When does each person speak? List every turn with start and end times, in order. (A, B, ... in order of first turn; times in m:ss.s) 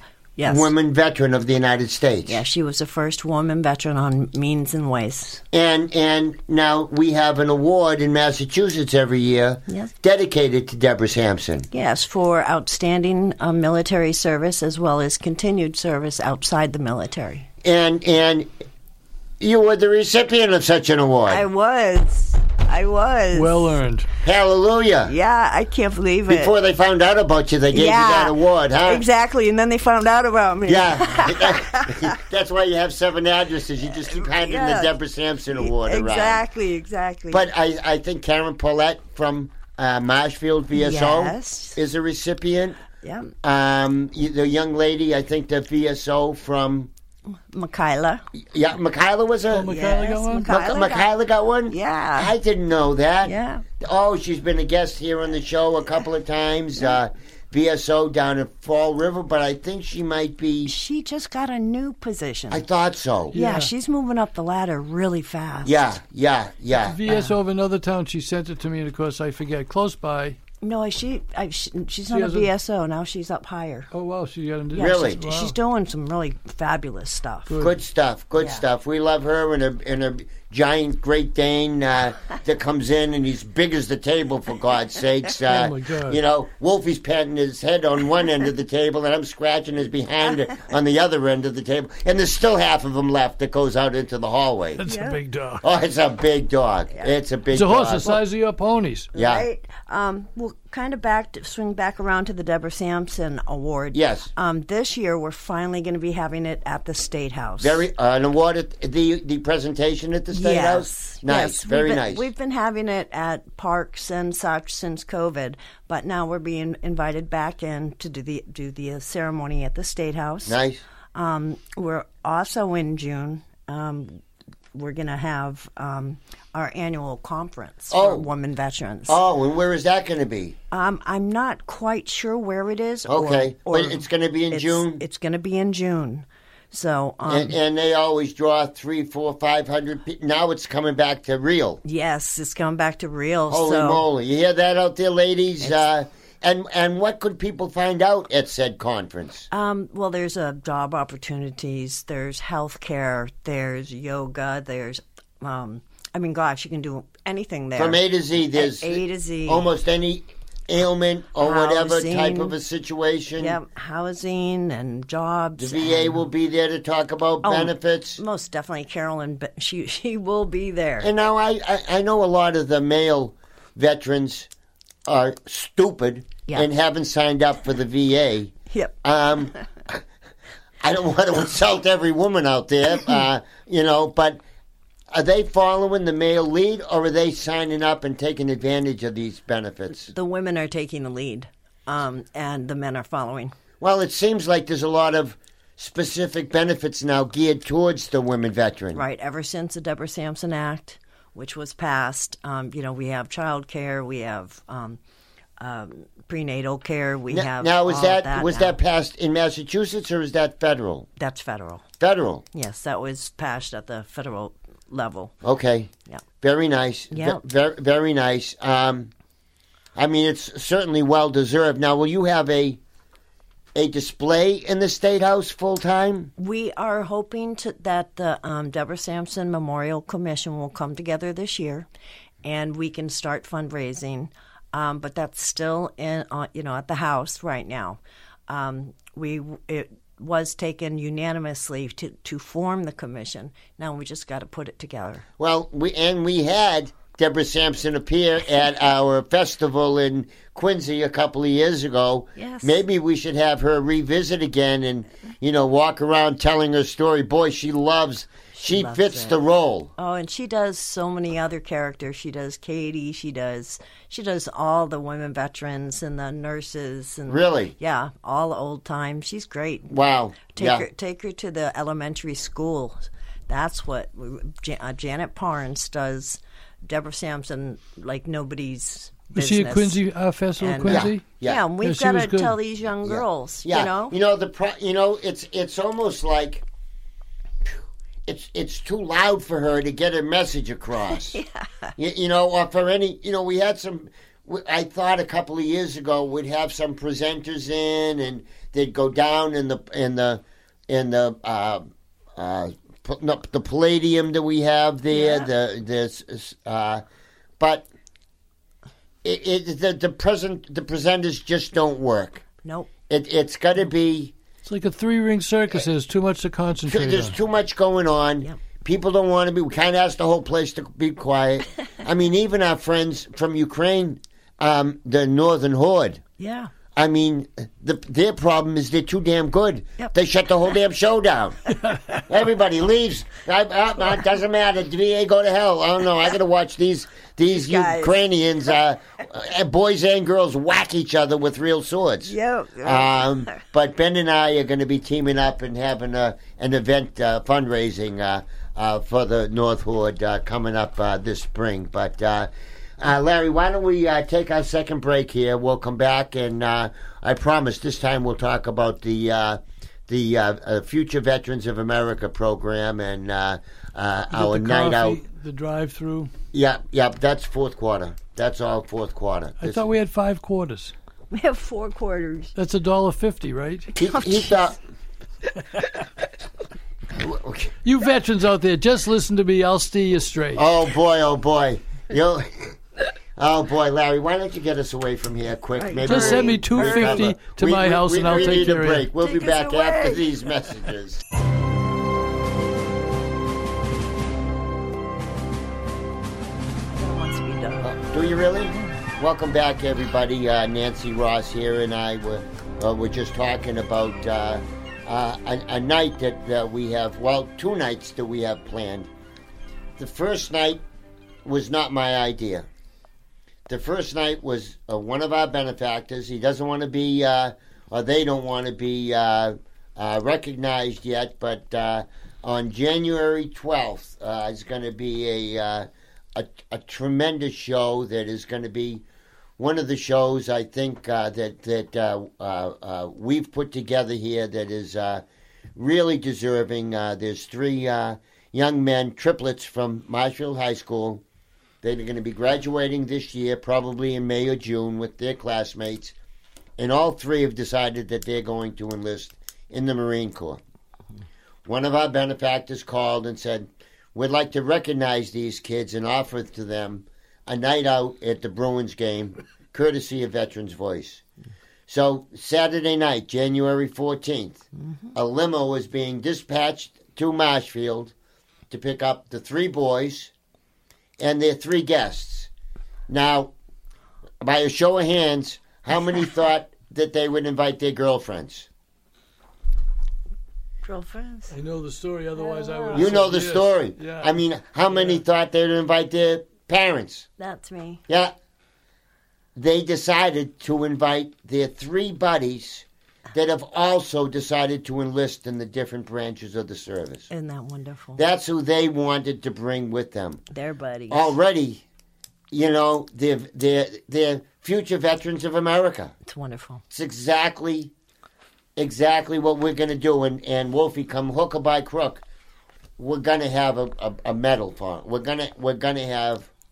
0:00.4-0:00.7 A
0:00.4-0:02.4 B
0:02.3-0:05.4 A
0:05.5-0:11.7 B
0:11.7-0:17.5 A
0:17.6-0:18.5 B
0:19.4-0:21.4 B
0:21.3-0:23.8 A
0:23.3-0:24.1 C
0:24.2-0:25.1 B
0:25.0-0:26.5 A
0:26.3-0:29.0 B
0:27.7-0:32.0 A
0:30.7-0:36.4 B
0:34.1-0:34.9 A
0:35.6-0:37.5 A
0:37.3-0:42.8 B
0:40.8-0:41.8 A
0:43.0-0:43.3 A
0:43.4-0:46.9 B
0:47.5-0:48.2 A
0:48.5-0:49.7 B
0:49.5-0:50.5 C
0:49.7-0:51.1 A
0:50.5-1:00.7 B
0:51.7-0:52.3 A
0:53.2-0:53.6 A
1:00.6-1:02.6 A
1:02.5-1:03.4 B
1:03.3-1:03.7 C
1:03.3-1:05.8 A
1:05.6-1:07.0 B
1:06.8-1:10.4 C
1:07.1-1:07.3 A
1:10.6-1:13.9 A
1:12.1-1:12.5 C
1:13.9-1:15.6 C
1:14.7-1:17.6 A
1:14.8-1:15.2 B
1:17.5-1:17.8 C
1:17.6-1:34.8 B
1:18.4-1:18.6 A
1:25.5-1:26.2 C
1:34.8-1:35.6 C
1:34.9-1:35.2 A
1:35.6-1:38.2 B
1:37.5-1:39.1 C
1:39.1-1:47.8 A
1:39.1-1:39.5 B
1:43.9-1:44.3 B
1:47.6-1:52.3 B
1:50.3-2:00.6 A
2:00.5-2:00.8 B
2:01.1-2:04.2 A
2:04.7-2:09.2 A
2:07.9-2:08.3 B
2:09.1-2:10.6 B
2:10.7-2:17.5 A
2:13.1-2:15.0 B
2:17.3-2:21.8 B
2:21.8-2:24.0 A
2:23.5-2:29.5 B
2:29.5-2:39.6 A
2:37.8-2:43.6 B
2:41.4-2:42.6 A
2:43.4-2:46.2 A
2:45.6-2:48.2 B
2:47.4-2:51.1 A
2:51.0-2:54.5 B
2:55.1-2:58.5 B
2:59.0-3:00.0 B
3:00.8-3:04.4 B
3:05.1-3:10.1 B
3:10.0-3:13.6 A
3:13.8-3:19.0 B
3:18.9-3:25.0 A
3:25.6-3:28.8 A
3:27.3-3:31.1 B
3:31.2-3:31.8 A
3:32.0-3:32.4 B
3:32.5-3:35.3 A
3:35.4-3:39.1 B
3:37.1-3:37.4 A
3:40.0-3:42.8 B
3:43.8-3:46.3 B
3:46.4-3:51.9 A
3:52.4-4:05.2 A
4:05.4-4:19.9 B
4:12.4-4:12.8 A
4:18.6-4:19.4 A
4:20.0-4:29.9 A
4:27.3-4:27.7 B
4:29.9-4:30.9 B
4:30.5-4:40.0 A
4:39.3-4:41.3 C
4:40.6-4:44.2 A
4:40.8-4:41.6 B
4:41.8-4:42.6 C
4:43.0-4:46.6 B
4:48.3-4:51.4 B
4:51.3-4:51.9 A
4:52.0-5:07.0 B
5:05.1-5:05.5 A
5:07.6-5:07.9 B
5:09.2-5:12.4 B
5:12.6-5:12.9 A
5:13.1-5:14.3 B
5:14.6-5:17.4 C
5:16.9-5:26.2 B
5:26.4-5:26.7 A
5:27.0-5:31.6 B
5:32.2-6:05.2 B
5:37.5-5:38.2 A
5:42.2-5:43.3 A
6:04.3-6:06.3 C
6:06.5-6:09.9 B
6:09.6-6:10.9 C
6:11.3-6:12.5 A
6:12.6-6:13.9 C
6:14.0-6:14.7 A
6:14.0-6:14.8 B
6:17.2-6:17.7 B
6:17.8-6:20.7 C
6:20.6-6:22.8 B
6:23.4-6:31.2 B
6:25.8-6:27.3 A
6:26.0-6:29.1 C
6:29.2-6:30.3 A
6:36.9-6:37.9 A
6:37.8-6:49.1 B
6:50.0-6:50.8 B
6:51.4-6:52.7 B
6:53.7-7:09.0 B
7:09.6-7:15.2 B
7:15.8-7:21.2 B
7:21.8-7:26.2 B
7:26.8-7:30.6 B
7:31.7-7:41.2 B
7:41.9-7:48.1 B
7:48.7-7:50.3 B
7:51.2-7:52.5 B
7:53.1-7:53.5 B
7:54.4-7:58.7 B
8:00.8-8:01.5 A
8:01.5-8:04.3 C
8:02.4-8:03.1 A
8:02.9-8:07.3 B
8:04.9-8:05.2 C
8:07.4-8:08.0 A
8:08.1-8:08.3 B
8:09.6-8:17.3 B
8:17.3-8:18.2 A
8:18.2-8:20.4 B
8:20.5-8:21.4 A
8:21.1-8:21.8 B
8:22.5-8:26.2 B
8:26.3-8:26.8 A
8:26.9-8:27.9 B
8:28.8-8:32.2 B
8:33.0-8:36.5 B